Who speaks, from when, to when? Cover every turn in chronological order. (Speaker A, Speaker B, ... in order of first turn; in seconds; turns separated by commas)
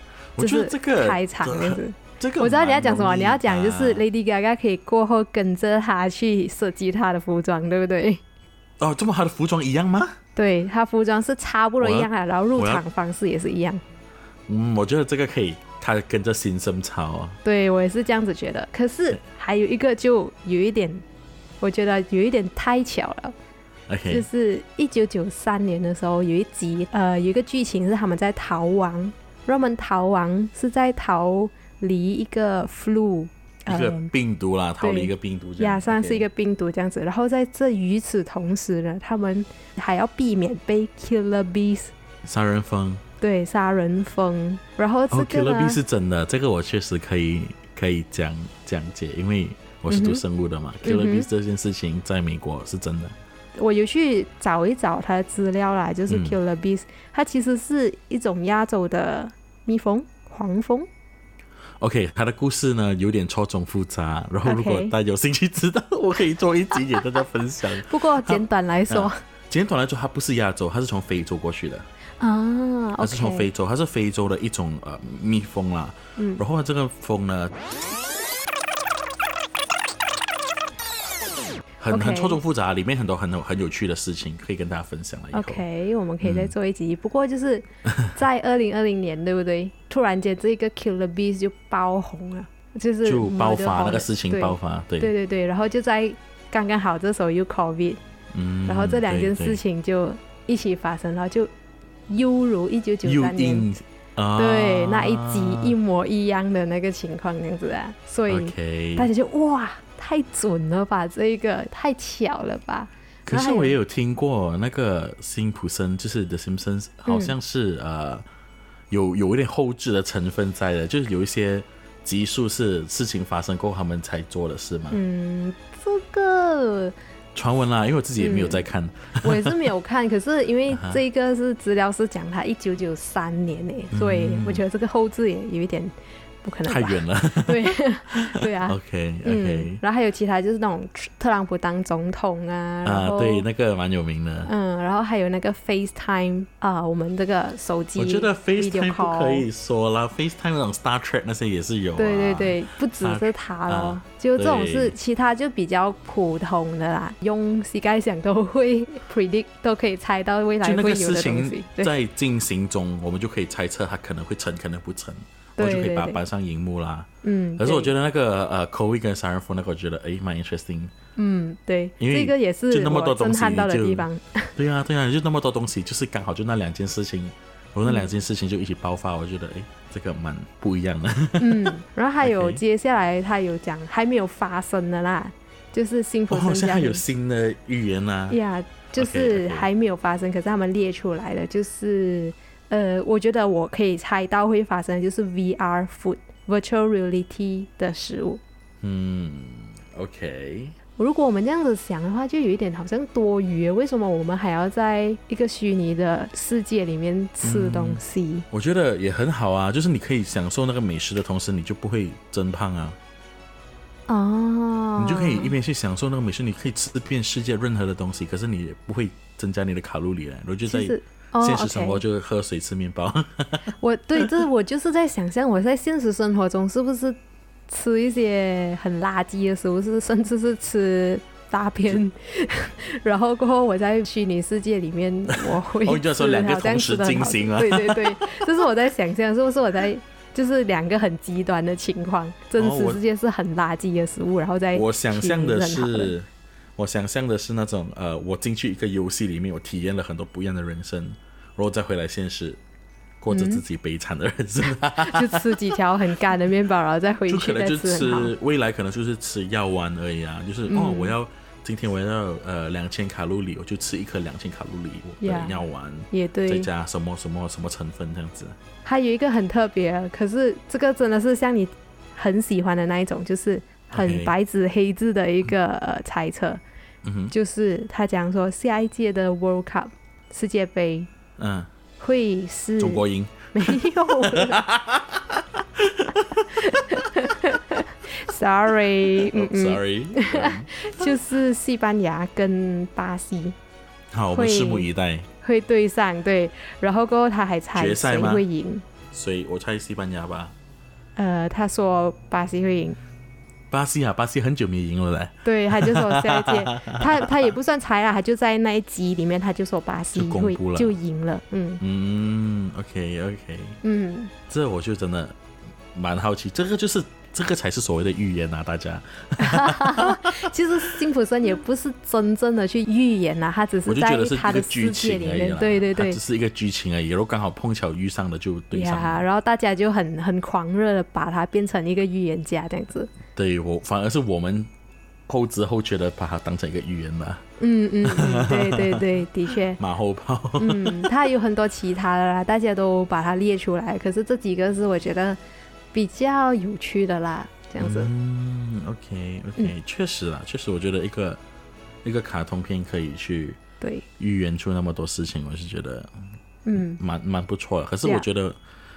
Speaker A: 0.3-4.0, Speaker B: 0.4-8.2, Speaker A: 8.8-10.2, Speaker B: 10.3-13.8, Speaker A: 11.8-12.8, Speaker A: 14.5-17.4, Speaker B: 17.4-21.0, Speaker B: 21.6-23.3, Speaker A: 23.9-24.2, Speaker B: 24.1-34.1, Speaker A: 33.7-36.2, Speaker B: 34.8-41.9, Speaker A: 42.2-43.0, Speaker B: 43.2-45.8, Speaker A: 45.1-53.1, Speaker B: 49.9-50.2, Speaker B: 50.8-51.3, Speaker B: 53.6-60.9, Speaker A: 56.1-56.4, Speaker A: 61.8-71.8, Speaker B: 64.4-64.9, Speaker B: 67.8-69.2, Speaker B: 72.2-73.5, Speaker A: 73.0-77.6, Speaker B: 76.2-76.4, Speaker A: 81.8-85.6, Speaker B: 81.9-82.4, Speaker B: 85.3-98.0, Speaker A: 86.2-86.5, Speaker A: 93.0-95.1, Speaker A: 98.3-99.6, Speaker B: 98.7-101.5, Speaker B: 102.1-103.7, Speaker A: 103.0-105.8, Speaker B: 104.3-113.8, Speaker A: 108.3-109.1, Speaker A: 113.3-118.2, Speaker B: 117.0-117.3, Speaker A: 118.9-125.0, Speaker B: 124.9-126.9, Speaker A: 127.3-129.6, Speaker B: 128.2-128.6, Speaker B: 129.2-135.9, Speaker A: 130.7-131.0, Speaker A: 133.9-134.6, Speaker B: 136.4-143.4, Speaker A: 136.7-139.8, Speaker A: 142.8-144.5, Speaker B: 144.4-149.4, Speaker A: 148.0-154.9, Speaker B: 152.0-161.9, Speaker A: 160.6-170.9, Speaker B: 165.6-166.2, Speaker B: 167.2-167.9, Speaker B: 171.2-174.5, Speaker A: 172.0-182.6, Speaker B: 181.4-187.0, Speaker A: 186.3-188.4, Speaker B: 188.3-198.4, Speaker A: 188.9-189.7, Speaker A: 198.8-200.8, Speaker B: 201.0-208.4, Speaker A: 207.4-213.0, Speaker B: 214.1-215.5, Speaker A: 215.0-224.3, Speaker B: 220.7-222.0, Speaker B: 223.8-227.2, Speaker B: 227.7-246.1, Speaker A: 235.3-238.5, Speaker A: 242.6-243.0, Speaker A: 244.7-252.6, Speaker A: 253.2-255.8, Speaker B: 253.3-253.6, Speaker B: 255.0-258.3, Speaker A: 257.3-268.6, Speaker B: 260.7-261.1, Speaker B: 265.2-265.5, Speaker B: 266.1-266.7, Speaker B: 268.8-276.6, Speaker A: 273.9-274.3, Speaker A: 277.0-277.3, Speaker B: 277.3-281.1, Speaker A: 281.4-281.7, Speaker B: 282.0-284.6, Speaker A: 282.8-287.0, Speaker B: 286.5-293.5, Speaker A: 289.1-291.0, Speaker A: 294.1-295.3, Speaker B: 294.3-294.9, Speaker B: 295.4-298.8, Speaker A: 297.7-298.4, Speaker A: 299.1-300.5, Speaker B: 301.1-303.0, Speaker A: 303.7-307.5, Speaker B: 305.4-311.8, Speaker A: 310.1-310.9, Speaker A: 311.8-313.8, Speaker B: 313.8-314.3, Speaker A: 314.5-315.4, Speaker A: 315.9-320.5, Speaker B: 319.4-326.2, Speaker A: 323.9-329.2, Speaker B: 328.7-333.1, Speaker A: 333.3-334.7, Speaker A: 335.3-337.4, Speaker B: 337.6-339.8, Speaker A: 338.0-339.0, Speaker A: 339.8-341.1, Speaker B: 340.6-345.4, Speaker B: 345.9-348.1, Speaker A: 347.8-351.4, Speaker A: 352.0-353.6, Speaker B: 353.8-354.1, Speaker A: 354.2-356.1, Speaker B: 356.6-357.0, Speaker A: 356.7-358.6